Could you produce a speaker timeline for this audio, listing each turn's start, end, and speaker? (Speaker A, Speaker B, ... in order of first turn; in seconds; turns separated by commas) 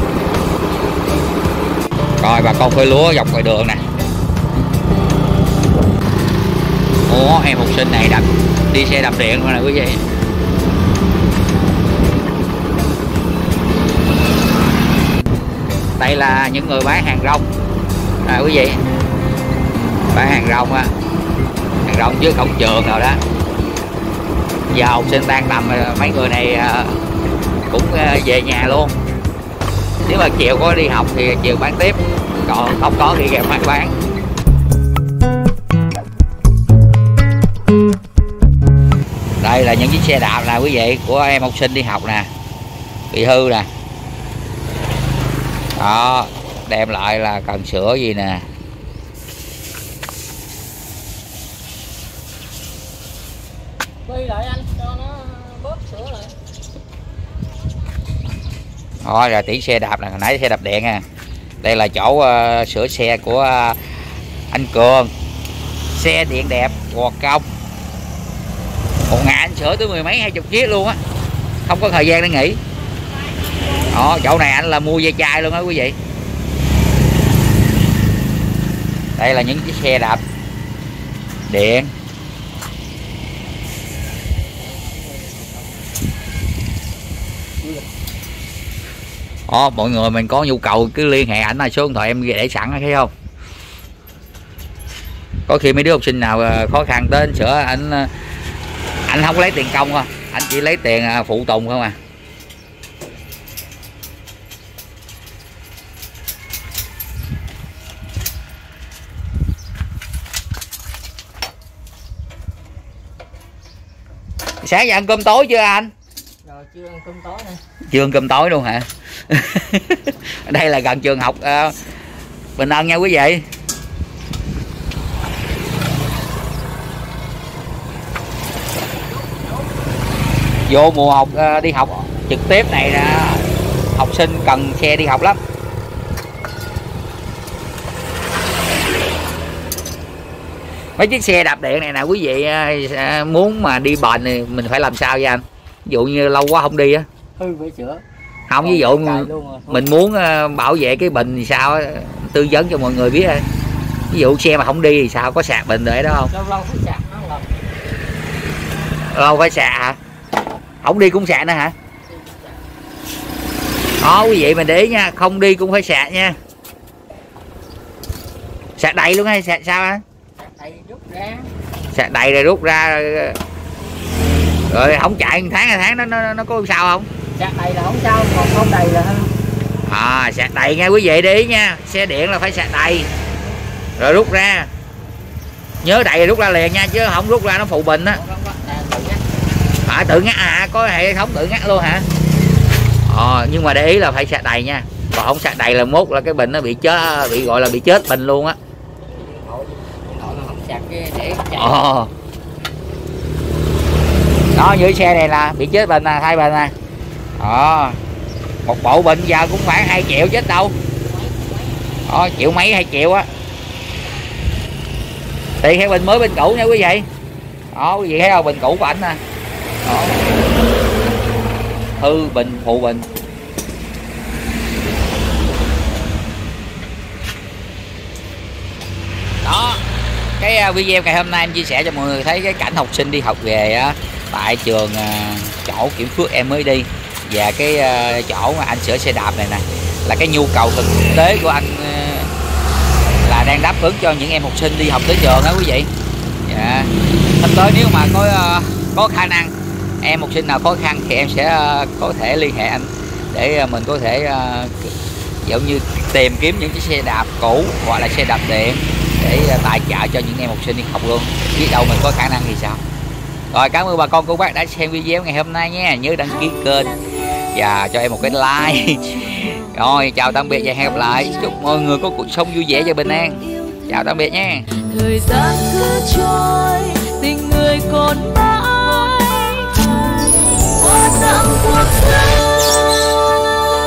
Speaker A: 2.2-3.8, Speaker A: 7.1-10.0, Speaker A: 16.0-17.4, Speaker A: 18.2-18.8, Speaker A: 20.1-20.9, Speaker A: 21.9-23.2, Speaker A: 24.7-27.0, Speaker A: 27.7-28.9, Speaker A: 30.1-34.0, Speaker A: 39.4-42.3, Speaker A: 43.1-43.7, Speaker A: 45.8-48.5, Speaker B: 54.0-56.4, Speaker A: 59.0-61.0, Speaker A: 61.6-64.0, Speaker A: 64.5-65.1, Speaker A: 65.9-67.5, Speaker A: 69.1-71.0, Speaker A: 71.7-72.6, Speaker A: 73.9-76.0, Speaker A: 79.2-80.2, Speaker A: 81.5-81.9, Speaker B: 84.6-85.7, Speaker B: 87.6-87.9, Speaker A: 89.5-93.1, Speaker A: 95.5-98.1, Speaker A: 99.1-102.0, Speaker A: 114.6-115.9, Speaker B: 116.5-117.6, Speaker A: 117.9-121.8, Speaker A: 122.6-123.5, Speaker A: 130.7-135.4, Speaker A: 141.0-147.1, Speaker B: 147.4-148.0, Speaker A: 148.5-153.5, Speaker B: 148.6-149.8, Speaker A: 154.1-156.3, Speaker B: 156.3-157.6, Speaker A: 159.1-160.0, Speaker A: 160.8-161.7, Speaker B: 162.1-162.6, Speaker A: 164.0-166.4, Speaker A: 168.8-170.0, Speaker B: 170.4-171.5, Speaker A: 171.9-173.4, Speaker A: 174.7-177.1, Speaker B: 177.4-179.3, Speaker A: 179.9-183.1, Speaker A: 184.0-184.7, Speaker A: 185.8-188.2, Speaker B: 188.1-189.5, Speaker A: 189.8-192.1, Speaker A: 193.1-198.6, Speaker B: 199.1-201.8, Speaker A: 201.6-202.1, Speaker A: 204.5-206.7, Speaker A: 207.4-208.0, Speaker A: 208.7-210.8, Speaker B: 211.1-211.8, Speaker A: 212.1-213.3, Speaker A: 215.6-217.1, Speaker A: 217.7-219.2, Speaker A: 219.8-220.3, Speaker A: 222.0-223.1, Speaker A: 229.4-229.8, Speaker A: 230.4-242.3, Speaker A: 243.2-245.9, Speaker A: 246.5-262.8, Speaker A: 263.5-267.0, Speaker A: 267.5-274.8, Speaker C: 274.8-280.1, Speaker C: 280.8-283.1